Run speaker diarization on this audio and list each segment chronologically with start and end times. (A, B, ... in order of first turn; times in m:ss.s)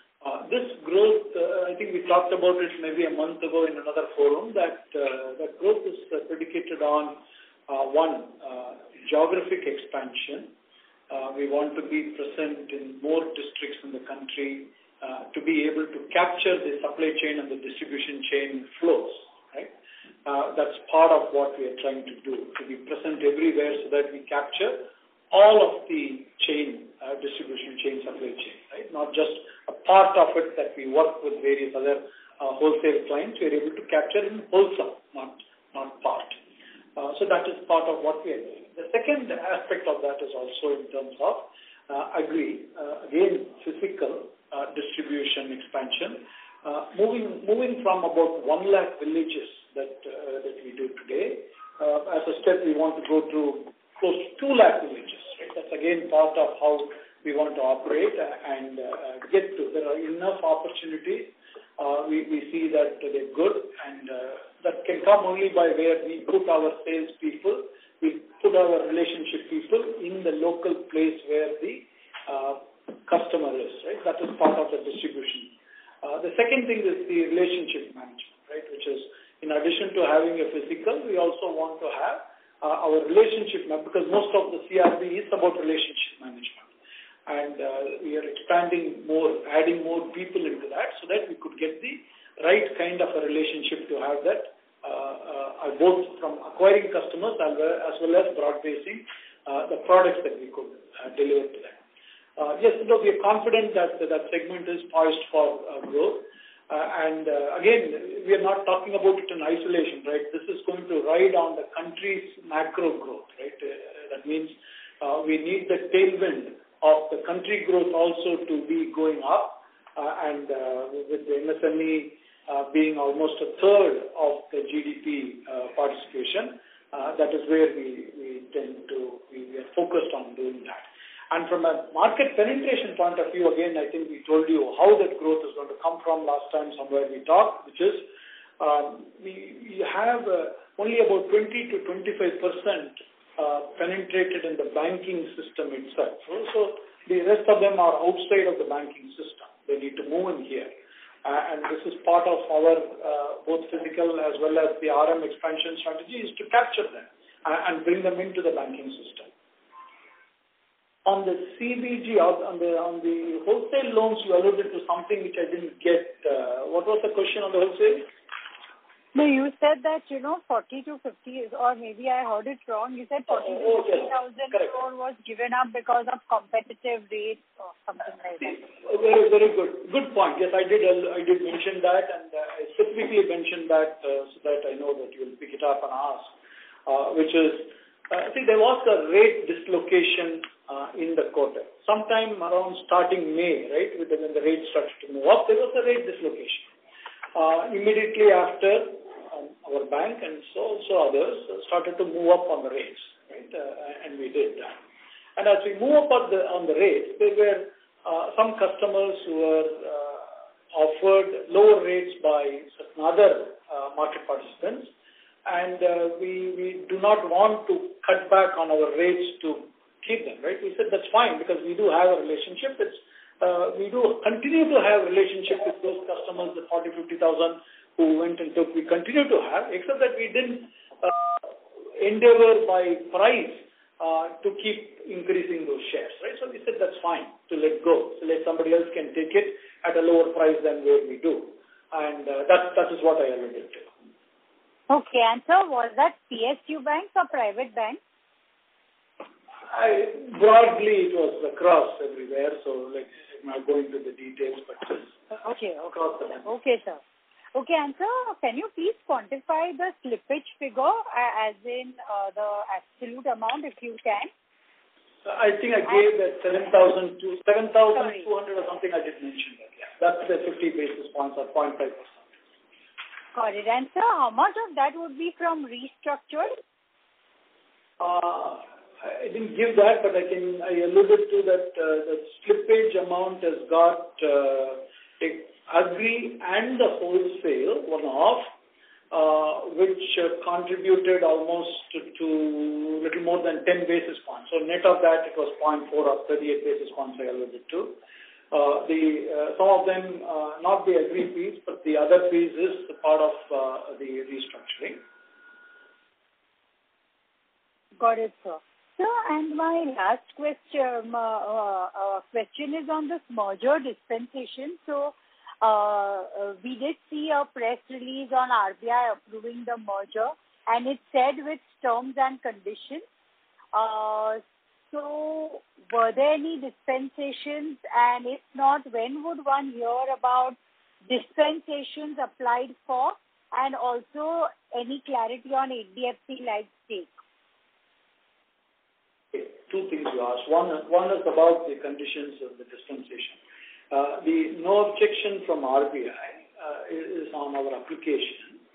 0:00.2-0:10.5 A
0:11.1-0:19.7 A
0:20.2-0:36.4 A
0:37.0-1:26.7 A
1:27.3-1:41.8 A
1:42.4-2:18.1 A
2:18.6-2:30.7 A
2:31.2-2:39.3 A
2:41.0-2:48.1 A
2:49.1-2:58.6 B
2:53.4-2:54.7 A
2:58.5-3:06.3 A
3:06.9-3:16.7 A
3:17.4-3:24.8 A
3:25.4-3:34.9 A
3:35.5-3:51.4 A
3:52.0-4:03.9 A
4:04.9-4:08.0 B
4:09.7-4:15.2 A
4:15.3-4:17.0 B
4:15.9-4:16.4 A
4:17.5-4:24.3 B
4:25.2-4:32.1 A
4:28.0-4:28.2 B
4:33.3-4:36.5 B
4:38.0-4:48.5 A
4:49.1-4:58.0 A
4:58.5-5:05.0 A
5:08.0-5:23.0 B
5:23.7-5:37.1 B
5:39.3-5:43.4 A
5:43.9-5:48.6 A